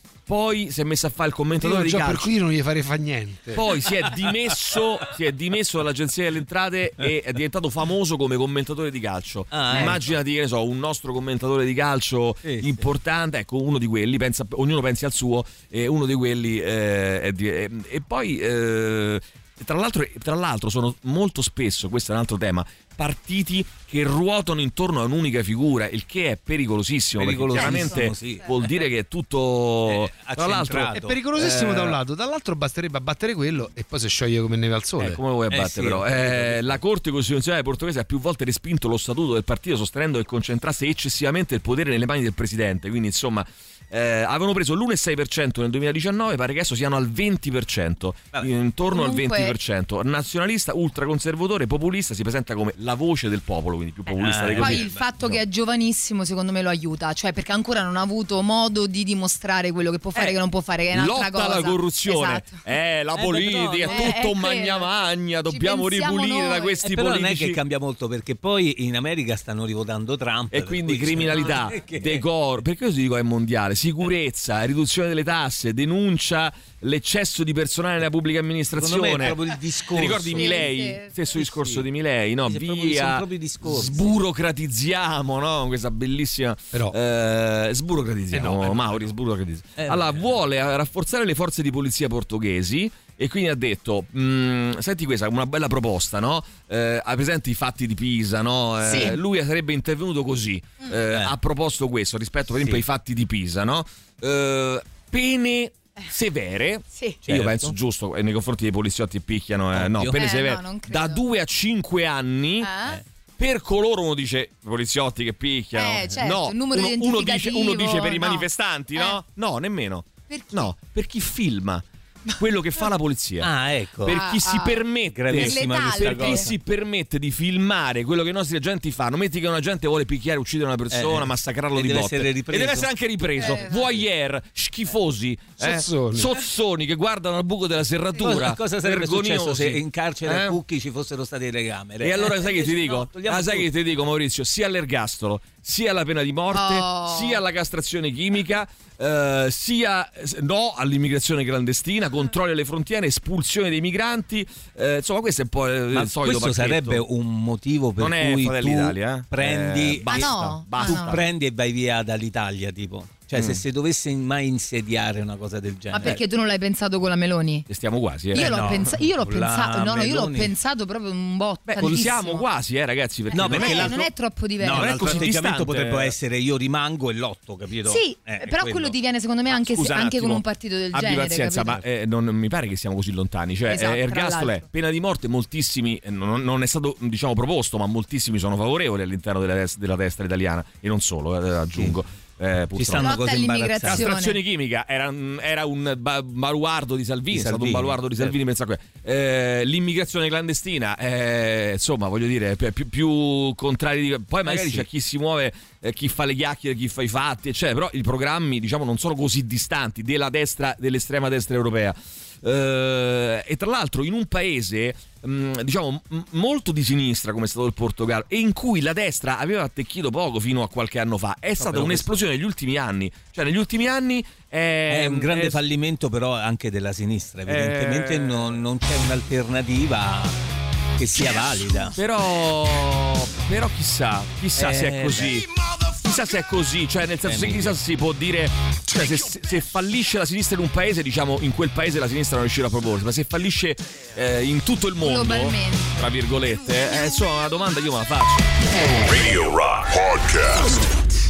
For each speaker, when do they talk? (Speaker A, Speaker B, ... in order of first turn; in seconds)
Speaker A: 0.3-2.3, 3.5-32.0, 35.0-54.9, 60.9-67.6, 70.5-79.4, 79.9-112.7, 113.4-121.8, 122.4-123.5, 124.0-140.6, 142.0-157.0, 158.0-161.3, 163.3-163.6, 167.7-168.9, 171.7-174.1, 174.7-176.2, 179.5-193.3, 193.8-225.6, 227.5-228.6, 231.9-235.5, 236.0-248.5
Speaker B: 1.6-3.6, 30.9-35.2, 88.3-89.0, 135.6-136.3
Speaker C: 9.5-10.0, 12.4-12.8, 27.2-28.8, 29.9-31.2, 35.5-36.8, 54.1-55.4, 63.1-64.2, 66.8-72.3, 78.8-80.7, 81.3-81.9, 82.5-84.2, 89.8-90.4, 98.8-99.2, 101.1-101.3, 107.3-107.8, 109.7-110.2, 123.4-124.2, 125.1-126.6, 130.9-132.9, 138.2-143.7, 155.9-166.2, 168.3-170.5, 173.3-174.1, 174.6-178.9, 192.7-194.1, 197.3-198.4, 204.5-204.9, 221.6-222.2, 224.9-230.4, 231.0-232.0, 234.6-235.4, 237.2-237.8
Speaker D: 27.6-28.5, 48.9-49.5, 54.6-62.6, 63.9-64.9, 65.5-66.8, 80.3-81.2, 98.9-99.2, 106.9-107.2, 110.2-111.2, 112.6-113.0, 115.8-119.2, 120.3-120.7, 124.1-126.5, 133.4-134.0, 146.5-147.4, 160.1-161.2, 165.9-167.7, 168.3-172.4, 173.3-175.3, 177.9-181.8, 183.7-184.7, 193.0-194.4, 245.0-246.0
Speaker E: 248.8-250.9